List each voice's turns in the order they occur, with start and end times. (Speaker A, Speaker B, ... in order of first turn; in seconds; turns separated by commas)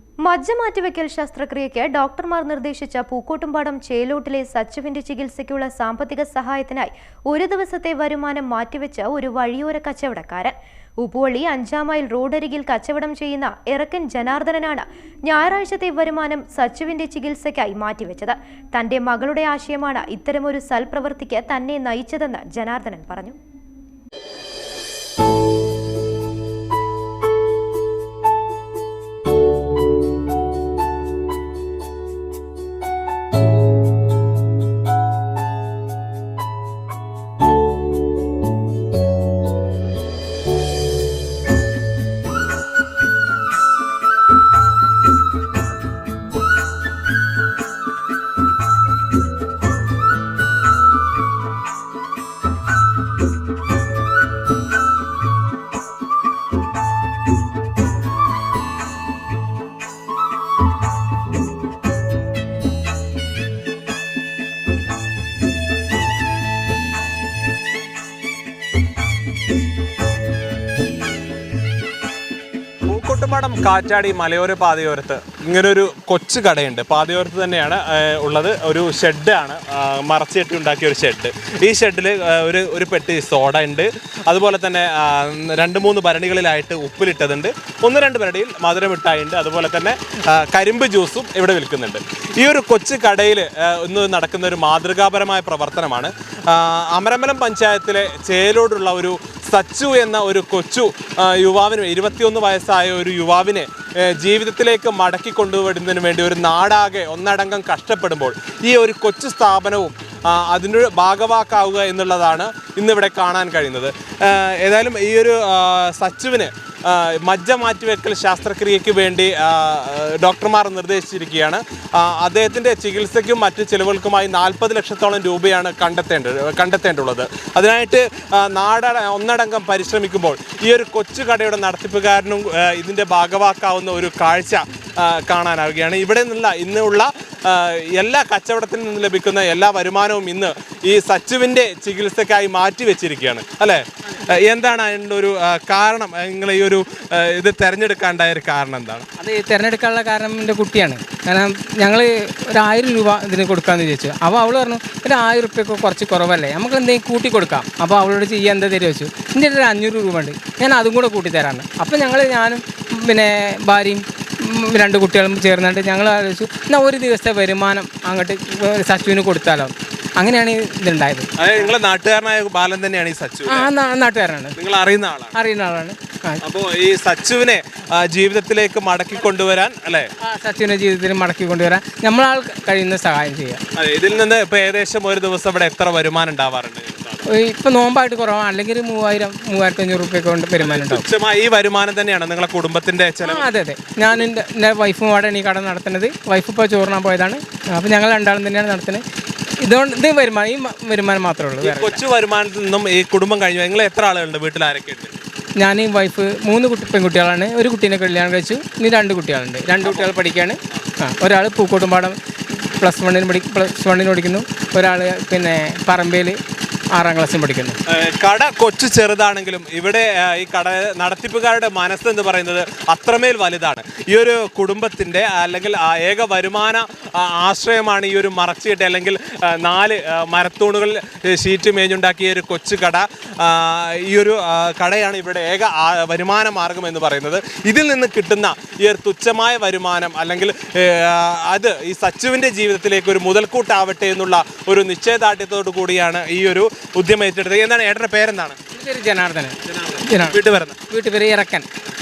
Speaker A: 0.2-23.4, Speaker B: 72.9-149.1, Speaker C: 149.2-171.3, Speaker B: 171.4-173.7, Speaker C: 173.5-174.5, Speaker B: 174.6-175.3, Speaker C: 175.3-176.4, Speaker B: 176.4-180.1, Speaker C: 180.2-183.6, Speaker B: 183.7-187.2, Speaker C: 187.3-191.0, Speaker B: 190.6-193.5, Speaker C: 193.2-199.0, Speaker C: 199.6-202.0, Speaker B: 201.6-205.1, Speaker C: 205.6-216.4, Speaker B: 209.8-210.2, Speaker C: 216.9-217.8, Speaker B: 217.9-248.6, Speaker C: 248.7-251.7, Speaker B: 249.7-250.8